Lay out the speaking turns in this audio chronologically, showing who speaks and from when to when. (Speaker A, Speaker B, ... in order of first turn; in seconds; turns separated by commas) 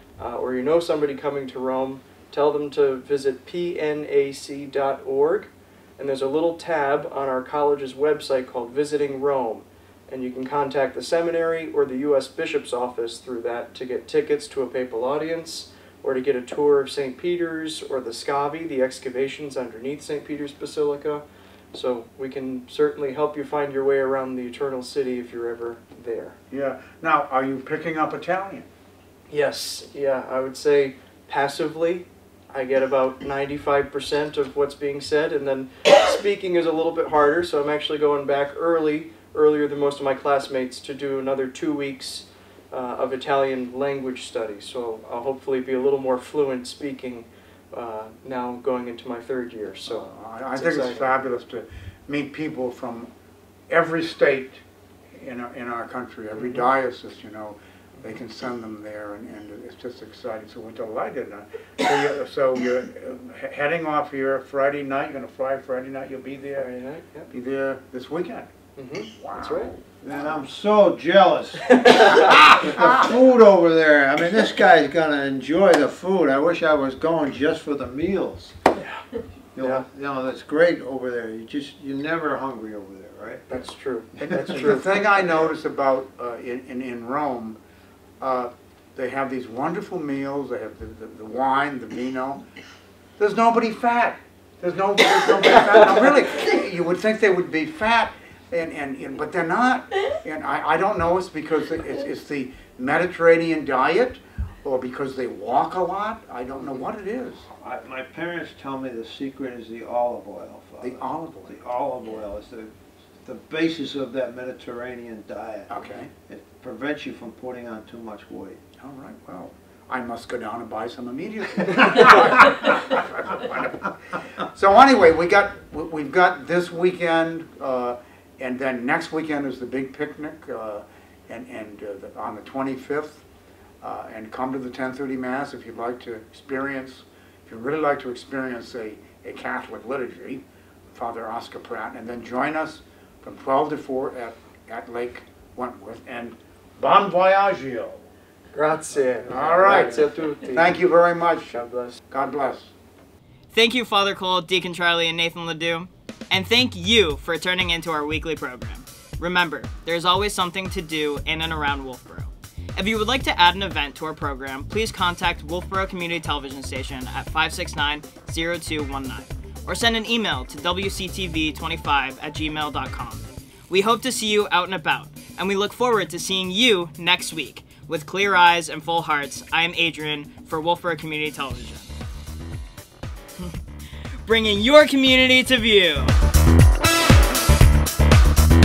Speaker A: 0.2-26.4, Speaker B: 26.5-28.7, Speaker A: 29.3-51.1, Speaker B: 49.9-53.1, Speaker B: 53.7-54.6, Speaker B: 55.2-66.7, Speaker A: 56.4-56.6, Speaker A: 66.6-67.3, Speaker B: 67.3-68.5, Speaker A: 68.8-69.7, Speaker B: 69.1-70.5, Speaker C: 70.0-78.6, Speaker A: 71.7-72.7, Speaker B: 72.2-73.0, Speaker A: 78.8-79.0, Speaker C: 79.5-83.5, Speaker A: 79.6-79.8, Speaker A: 83.5-85.0, Speaker B: 84.2-87.6, Speaker C: 84.3-84.6, Speaker B: 88.2-92.4, Speaker B: 93.2-107.5, Speaker C: 107.5-118.6, Speaker B: 110.8-111.6, Speaker B: 115.7-116.1, Speaker B: 118.8-133.2, Speaker B: 133.8-148.0, Speaker A: 148.5-150.8, Speaker B: 149.3-152.7, Speaker A: 151.5-152.0, Speaker D: 153.5-181.9, Speaker D: 184.2-186.2